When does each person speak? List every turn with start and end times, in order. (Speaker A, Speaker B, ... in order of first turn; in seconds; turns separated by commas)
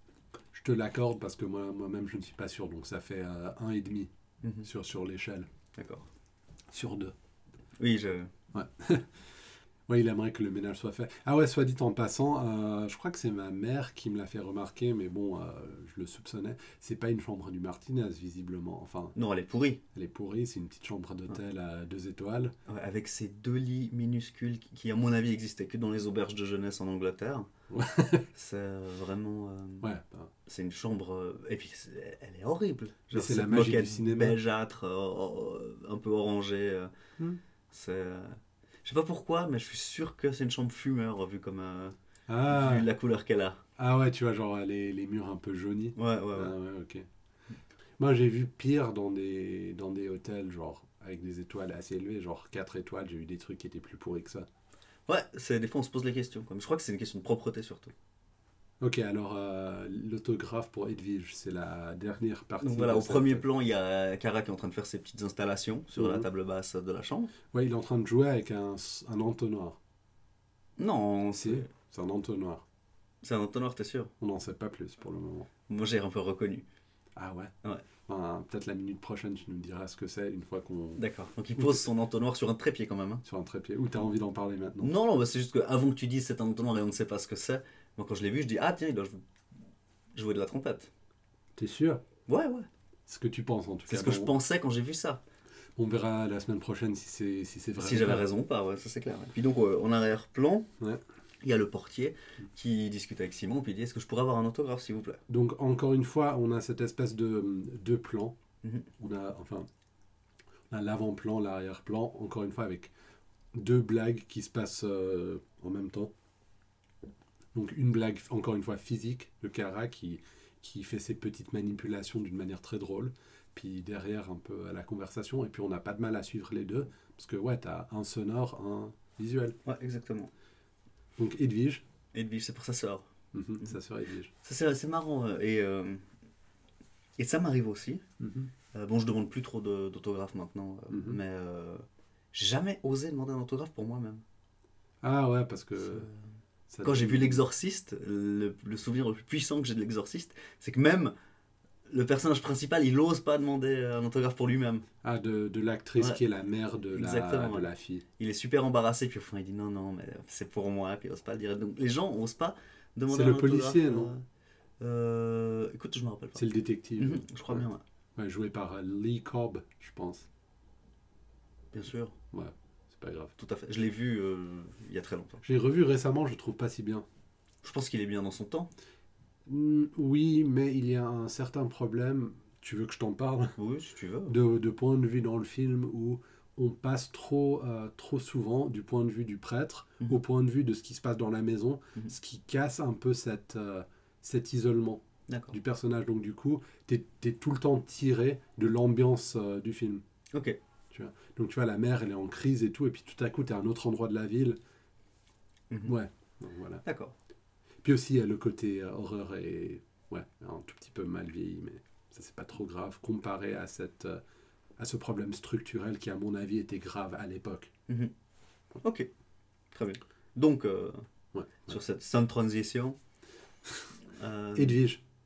Speaker A: 0.5-4.1, Speaker A: 4.6-5.5, Speaker B: 5.7-6.1, Speaker A: 6.7-7.1, Speaker B: 7.8-8.3, Speaker A: 8.5-9.2, Speaker A: 9.9-19.1, Speaker B: 19.1-19.8, Speaker A: 19.9-22.5, Speaker B: 22.7-27.5, Speaker A: 27.7-28.3, Speaker B: 28.3-29.9, Speaker A: 29.8-30.3, Speaker B: 30.4-36.9, Speaker A: 33.1-34.4, Speaker B: 37.7-42.0, Speaker A: 42.3-42.9, Speaker B: 42.5-43.6, Speaker A: 43.8-47.0, Speaker B: 46.0-46.5, Speaker A: 48.0-54.5, Speaker B: 55.1-57.9, Speaker A: 58.8-63.4, Speaker B: 62.6-67.3, Speaker A: 66.0-66.2, Speaker A: 67.5-69.8, Speaker B: 70.8-71.7, Speaker A: 71.3-72.6, Speaker B: 73.2-74.1, Speaker A: 74.2-75.5, Speaker B: 75.7-76.7, Speaker A: 77.2-77.5, Speaker A: 78.1-81.0, Speaker B: 81.0-83.2, Speaker A: 81.5-81.8, Speaker A: 83.2-84.9, Speaker B: 84.8-89.2, Speaker B: 90.1-90.9, Speaker A: 91.6-92.0, Speaker B: 92.3-92.7, Speaker A: 93.1-94.3, Speaker B: 93.9-95.2, Speaker A: 95.8-98.2, Speaker B: 97.8-100.7, Speaker B: 101.4-105.2, Speaker A: 105.3-108.3, Speaker A: 109.0-109.7, Speaker A: 110.7-112.9, Speaker A: 113.5-116.1, Speaker A: 117.5-129.6, Speaker B: 129.6-130.3, Speaker A: 131.2-131.8, Speaker B: 132.1-133.1, Speaker A: 133.3-134.3, Speaker B: 134.4-136.1, Speaker B: 137.2-138.0, Speaker A: 138.2-138.5, Speaker B: 138.7-144.2, Speaker A: 140.9-141.2, Speaker A: 145.0-146.1, Speaker B: 145.8-146.1, Speaker A: 146.7-147.4, Speaker B: 146.8-151.1, Speaker B: 151.9-154.8, Speaker A: 155.0-158.0, Speaker B: 156.9-164.2, Speaker A: 163.1-164.1, Speaker B: 164.8-166.4, Speaker A: 166.3-167.7, Speaker B: 167.0-167.8, Speaker A: 168.2-170.3, Speaker B: 171.7-172.1, Speaker A: 172.3-173.3, Speaker B: 173.4-175.4, Speaker A: 175.4-177.1, Speaker B: 177.6-178.7, Speaker A: 179.5-183.6, Speaker B: 183.6-184.3, Speaker A: 184.3-200.0, Speaker B: 195.3-195.6, Speaker B: 200.3-200.6, Speaker A: 200.9-204.6, Speaker B: 205.7-205.9, Speaker A: 205.8-206.8, Speaker B: 206.8-207.1, Speaker A: 207.8-214.2, Speaker A: 214.8-217.7, Speaker B: 217.9-218.1, Speaker B: 218.8-219.1, Speaker B: 219.7-221.1, Speaker A: 221.3-221.7, Speaker B: 221.7-223.0, Speaker A: 223.7-223.9, Speaker B: 224.1-224.8, Speaker A: 224.5-225.0